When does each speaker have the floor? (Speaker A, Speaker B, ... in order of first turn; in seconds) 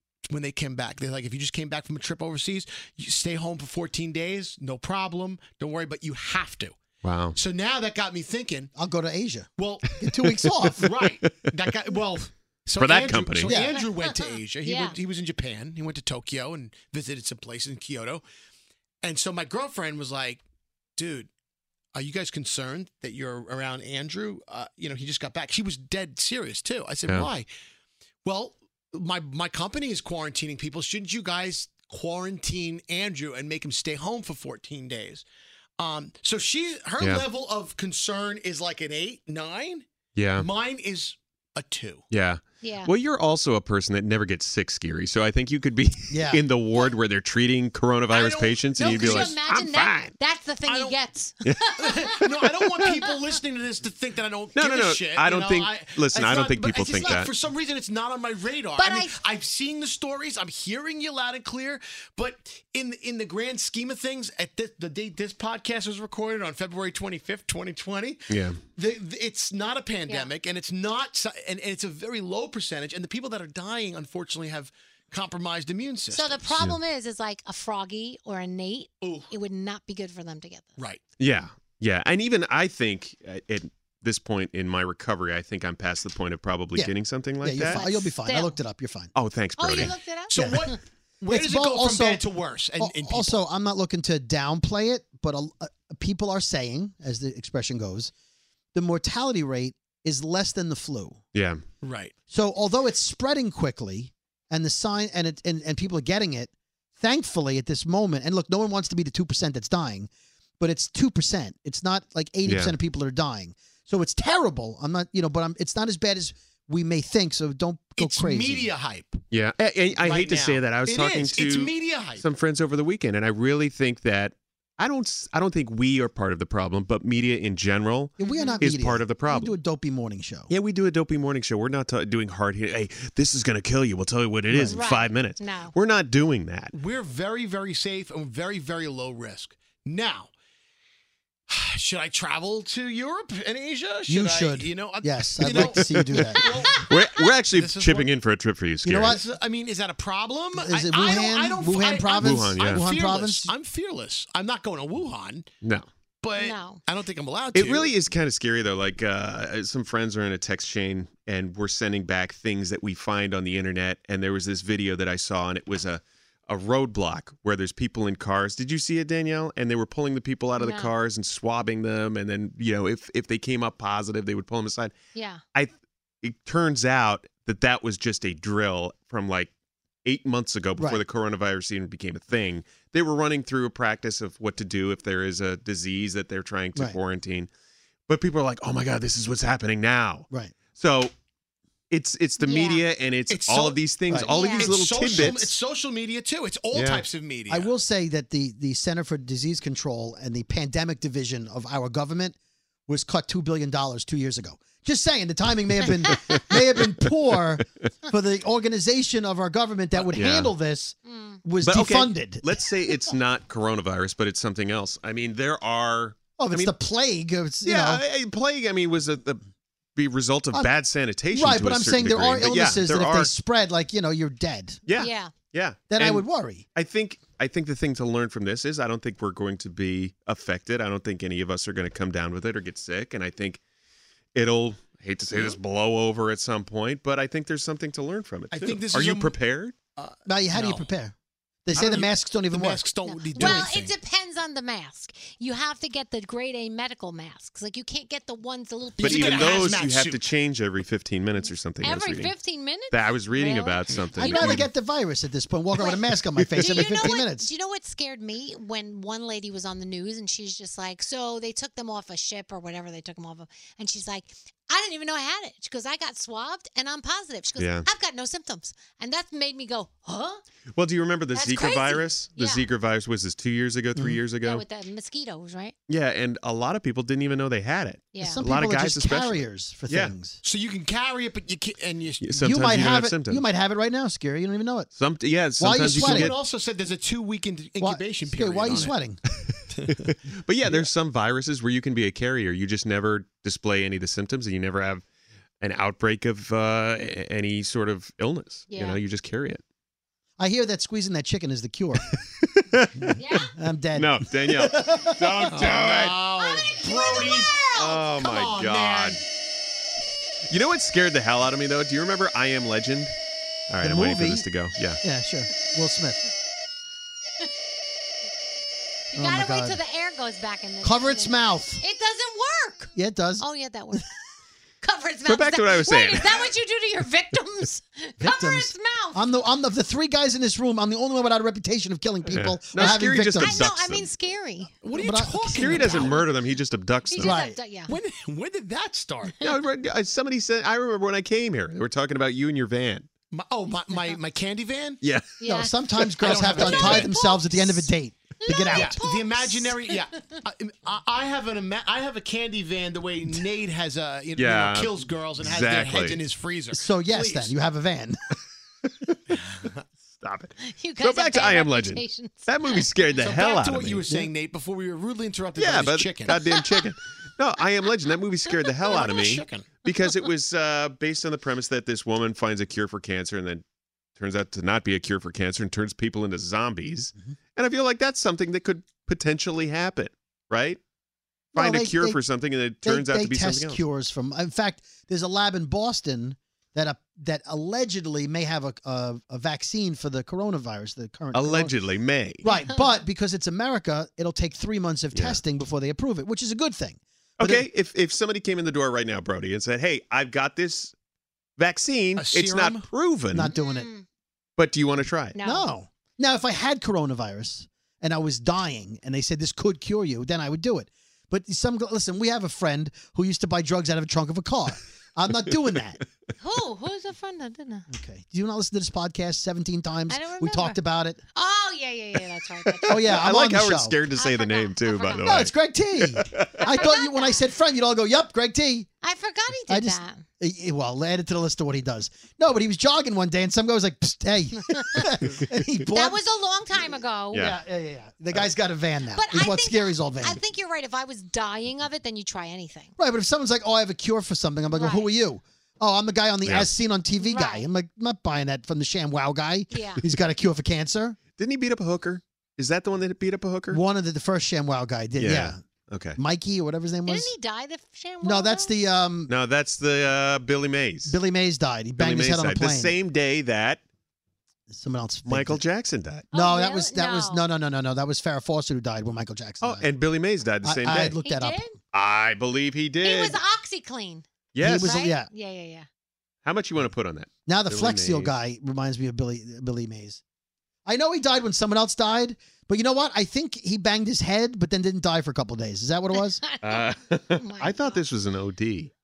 Speaker A: 0.3-6.8, 7.3-8.7, 9.6-10.0, 10.8-18.2, 19.0-20.4, 21.0-21.3, 21.9-27.5, 28.2-35.2, 35.8-42.0, 48.1-49.4, 50.6-51.0, 51.8-76.6, 79.0-79.3, 90.3-93.4, 101.8-102.1, 118.0-119.2, 120.0-122.2, 136.7-140.3, 141.5-148.1, 149.0-155.5, 156.2-157.9, 193.3-197.7, 238.5-239.4, 240.0-240.9, 241.7-243.9, 249.0-250.3, 280.4-282.4, 285.9-288.9, 305.4-309.2, 334.8-336.2, 337.9-339.4, 343.3-345.0, 346.2-347.1, 348.7-357.5, 363.2-366.4, 368.8-369.7, 402.1-402.8
Speaker B: 7.0-7.4, 12.8-13.5, 37.0-37.2, 40.1-40.5, 42.1-50.1, 54.5-57.3, 68.3-68.6, 81.2-87.8, 89.1-90.0, 101.3-101.6, 112.4-112.7, 119.3-129.6, 130.5-136.7, 145.5-146.2, 146.9-149.2, 152.2-152.8, 157.5-174.9, 176.2-179.5, 180.0-187.5, 188.1-191.1, 191.9-195.5, 196.7-197.0, 210.0-210.5, 211.6-216.7, 217.6-219.4, 219.9-223.3, 224.9-233.6, 234.3-239.7, 249.0-254.7, 256.4-256.9, 267.6-267.9, 270.7-274.6, 275.9-280.1, 282.2-283.4, 284.9-286.3, 288.7-288.9, 289.9-295.0, 295.6-299.6, 302.6-303.2, 303.9-306.2, 307.8-309.2, 310.5-313.1, 313.7-315.0, 325.2-326.5, 332.3-334.1, 335.5-337.4, 339.4-343.1, 345.0-345.4, 345.9-347.1, 354.4-356.2, 359.1-364.0, 365.6-373.6, 374.2-380.8, 381.5-383.8, 391.3-392.4, 395.1-395.4, 397.4-400.9, 401.6-403.5, 404.6-405.4, 422.9-426.7, 437.3-437.6, 446.4-446.7, 451.4-453.8, 455.2-456.2, 459.3-461.2, 461.9-463.8, 465.2-466.3, 469.6-471.2, 471.9-473.4, 474.5-475.0, 476.4-478.3, 486.6-488.9
Speaker C: 8.7-10.9, 13.4-13.8, 46.1-46.4, 86.7-89.1, 90.3-90.6, 91.3-92.2, 92.8-98.1, 98.7-101.2, 102.3-118.7, 128.2-130.5, 134.5-134.9, 144.1-146.5, 148.8-149.2, 150.5-153.5, 180.8-181.0, 190.3-190.5, 194.1-194.3, 197.5-202.3, 202.9-212.5, 216.4-218.0, 221.3-225.0, 225.9-226.6, 240.2-241.1, 241.7-242.9, 254.2-257.5, 273.9-274.2, 278.2-280.4, 282.4-284.9, 285.6-286.3, 287.8-289.2, 300.4-302.1, 303.4-305.4, 313.8-314.4, 315.0-316.2, 319.1-319.8, 320.8-321.8, 322.9-324.0, 328.2-333.7, 334.9-335.9, 337.2-337.6, 345.4-348.9, 356.7-358.2, 381.5-382.2, 382.8-391.8, 392.4-397.7, 403.3-403.9, 405.4-416.0, 417.9-421.2, 422.9-424.0, 425.2-428.9, 429.7-436.2, 437.3-440.4, 443.0-451.2, 453.7-455.6, 456.1-457.3, 458.2-459.3, 461.0-463.0, 464.7-465.6, 466.3-469.9, 470.6-471.6, 474.6-475.3, 477.4-480.2, 480.9-486.4
Speaker D: 14.6-14.9, 42.6-42.9, 48.8-53.0, 58.8-59.1, 76.1-80.8, 87.7-88.6, 89.6-90.8, 128.2-128.6, 134.7-135.7, 156.4-156.8, 170.6-170.9, 175.1-175.4, 192.4-192.8, 194.3-194.7, 211.1-211.4, 225.0-225.3, 243.0-249.7, 251.8-254.7, 255.8-256.0, 256.6-270.4, 271.3-272.7, 274.4-275.7, 278.1-278.4, 298.7-299.0, 303.1-303.5, 306.4-307.6, 319.1-324.1, 324.8-329.3, 332.8-334.8, 335.7-336.2, 337.1-337.9, 345.4-345.7, 346.6-347.9, 348.4-349.9, 360.6-362.8, 403.5-404.0, 405.3-405.7, 416.4-417.9, 420.1-420.8, 421.3-423.1, 424.1-425.5, 426.6-427.5, 429.0-430.2, 435.9-437.5, 439.1-442.9, 444.7-445.1, 447.2-447.7, 449.7-450.0, 457.1-458.8, 466.3-467.4, 471.2-471.7, 473.0-474.2, 474.8-475.9, 486.4-488.0